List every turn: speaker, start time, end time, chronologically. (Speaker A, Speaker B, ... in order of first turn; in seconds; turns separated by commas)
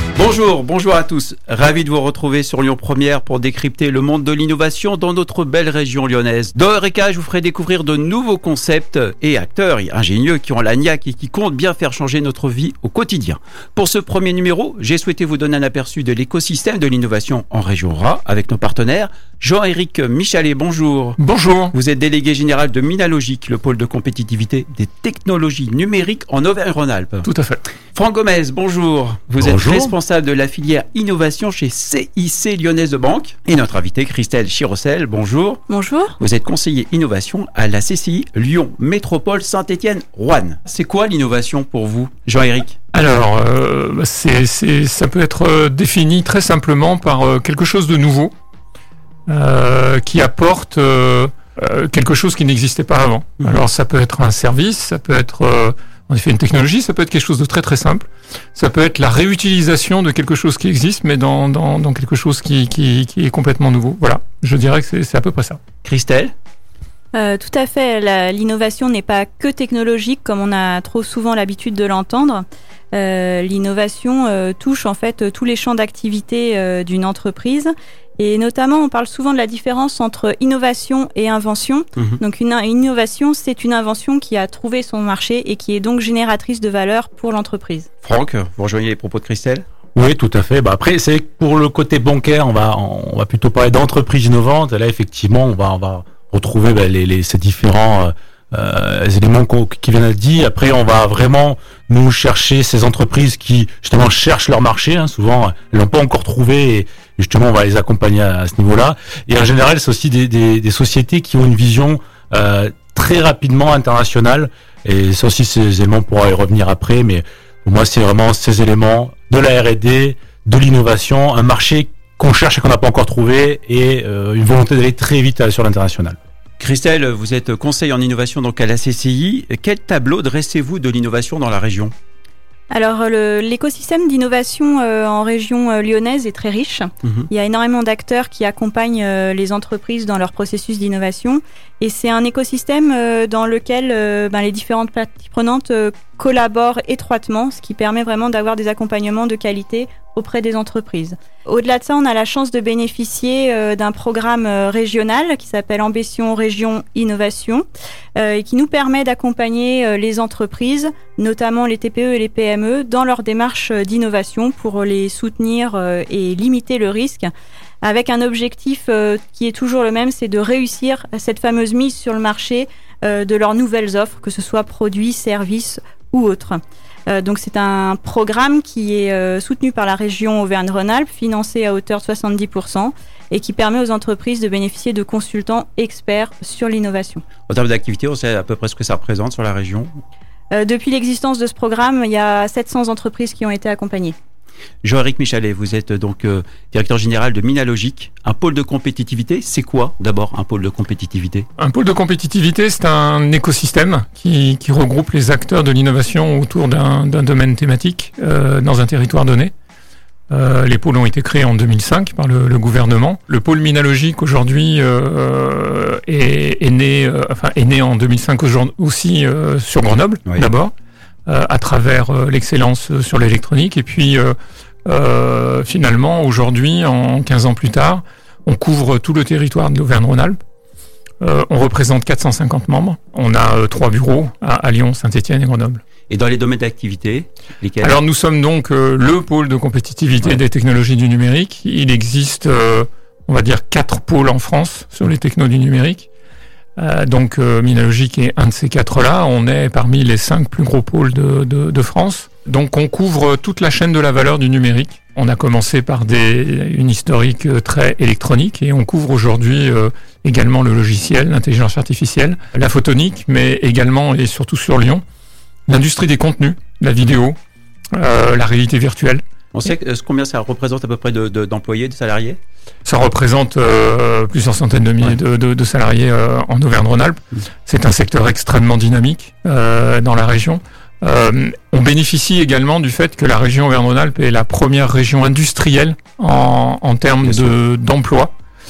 Speaker A: 0.1-21.2, Speaker B: 21.2-21.8, Speaker A: 21.7-27.3, Speaker B: 27.2-27.6, Speaker A: 27.9-35.6, Speaker C: 29.4-29.9, Speaker D: 35.7-36.2, Speaker A: 36.2-42.8, Speaker B: 42.9-48.3, Speaker B: 49.3-65.6, Speaker A: 65.8-66.3, Speaker D: 67.1-87.9, Speaker A: 88.0-89.7, Speaker C: 89.9-126.2, Speaker A: 126.6-131.9, Speaker D: 132.7-157.7, Speaker D: 158.2-167.3, Speaker D: 167.8-187.2, Speaker A: 187.5-189.9, Speaker D: 190.5-194.2, Speaker A: 194.8-201.5, Speaker B: 201.6-209.5, Speaker B: 210.3-220.7, Speaker B: 221.3-230.4, Speaker B: 231.2-235.8, Speaker A: 236.1-237.9, Speaker B: 237.8-246.1, Speaker B: 246.8-265.0, Speaker B: 265.7-267.4, Speaker B: 267.9-269.2, Speaker A: 269.5-272.4, Speaker B: 272.9-288.3, Speaker A: 287.2-287.5